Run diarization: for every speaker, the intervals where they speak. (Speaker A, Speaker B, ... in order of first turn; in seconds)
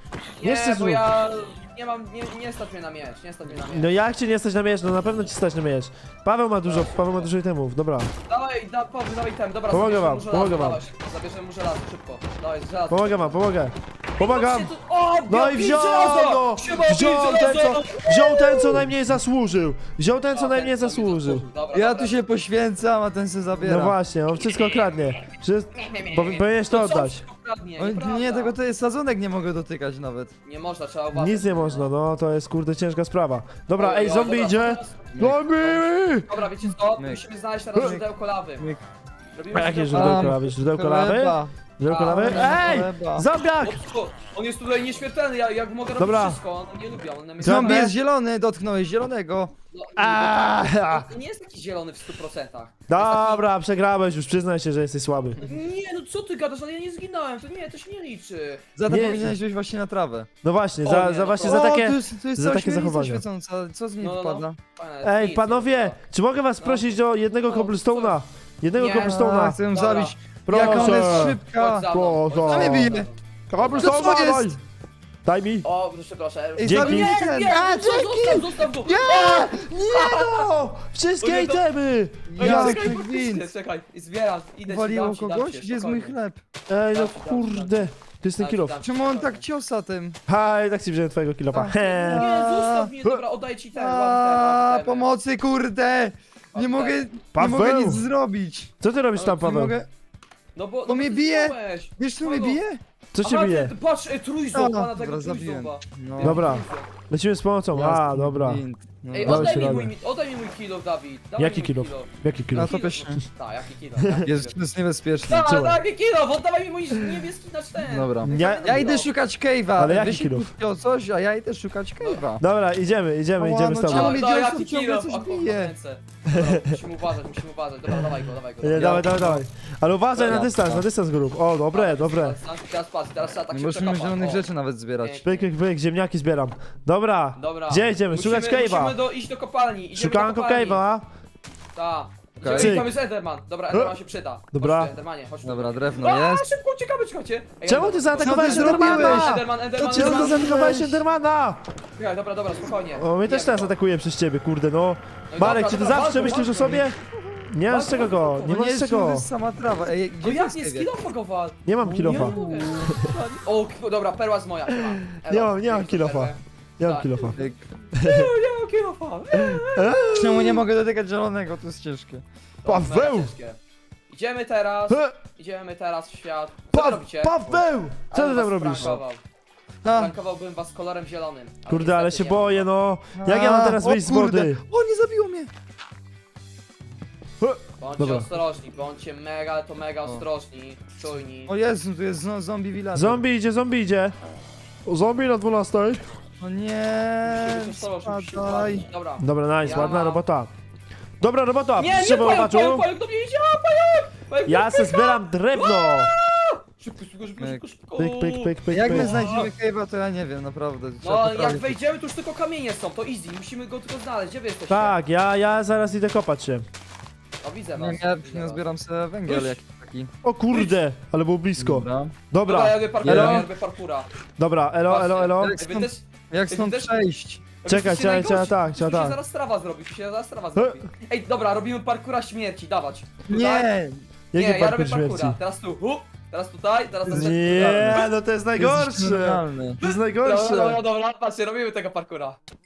Speaker A: 0.4-3.9, 6.6-7.3, 8.3-13.4, 14.2-18.8, 20.3-22.2, 24.6-24.8, 25.8-28.6, 30.4-31.9, 33.8-38.7, 39.3-40.4, 41.9-42.6, 43.6-47.9, 49.7-53.5, 55.4-58.6, 60.8-61.7, 64.0-66.0, 66.6-66.9, 67.4-68.2, 68.8-74.2, 75.6-80.5, 81.2-81.6, 82.4-86.2, 86.9-89.4, 91.5-95.1, 96.5-97.0, 99.2-99.4, 100.5-102.6, 103.2-106.9, 109.1-114.5, 115.2-119.1, 123.9-129.2, 130.2-130.4, 131.7-134.5, 135.0-135.5, 137.3-140.8, 141.7-150.5, 152.0-153.7, 155.3-156.9, 157.7-158.6, 160.2-167.5, 168.0-170.0, 172.6-173.6, 174.1-177.5, 178.1-179.2, 179.9-182.7, 187.8-191.5, 197.2-200.2, 201.8-209.5, 211.0-215.0, 217.4-218.6, 219.3-219.5, 220.5-220.8, 222.4-224.1, 224.9-227.0, 227.6-233.7, 234.3-238.1, 239.8-242.4
Speaker B: 0.4-1.0, 3.5-8.1, 9.7-10.8, 12.9-14.7, 15.3-21.4, 23.6-27.2, 31.1-36.3, 39.5-43.8, 46.0-46.4, 47.4-47.9, 50.0-51.1, 52.9-55.4, 58.9-59.4, 60.4-63.2, 65.0-69.6, 70.5-74.6, 75.2-75.7, 76.6-83.0, 86.7-88.8, 90.3-92.3, 97.3-98.0, 98.8-99.8, 103.1-103.7, 106.2-108.6, 109.2-109.9, 111.4-112.7, 115.3-115.8, 118.2-118.8, 119.8-120.5, 122.4-124.2, 126.3-126.8, 128.6-132.4, 135.2-139.0, 139.9-141.1, 142.5-142.9, 144.5-144.9, 147.7-151.6, 152.9-157.0, 157.5-159.3, 161.7-163.1, 164.7-167.4, 168.0-168.3, 169.4-170.6, 172.7-173.3, 176.7-179.0, 181.7-184.6, 187.4-188.3, 192.9-194.2, 194.8-196.0, 199.2-200.5, 201.2-202.9, 204.5-206.1, 208.0-209.2, 214.7-216.7, 220.2-223.5, 224.4-225.9, 227.7-229.2, 230.5-230.8, 234.3-235.4, 237.1-240.8
Speaker C: 21.7-24.0, 27.8-30.3, 35.1-35.4, 36.9-37.2, 37.8-38.0, 38.6-38.8, 39.9-41.5, 42.1-43.3, 47.4-49.5, 58.8-60.3, 61.4-64.6, 69.0-71.9, 72.4-73.1, 73.7-74.6, 76.6-77.6, 82.3-83.5, 84.7-86.4, 88.8-90.2, 91.5-92.9, 93.7-99.9, 100.9-102.8, 104.5-106.4, 107.7-109.8, 112.5-113.2, 114.2-115.4, 117.8-122.4, 123.4-125.7, 128.7-129.4, 130.2-130.9, 133.5-135.2, 142.4-142.8, 145.4-146.5, 148.2-151.0, 158.4-160.9, 162.0-162.9, 167.3-167.7, 170.2-172.2, 179.8-180.2, 183.2-185.5, 191.5-193.2, 196.4-198.9, 207.4-207.6, 208.7-211.8, 217.8-220.1, 221.6-222.2, 223.0-223.5, 226.3-227.4, 233.3-234.0, 237.1-239.8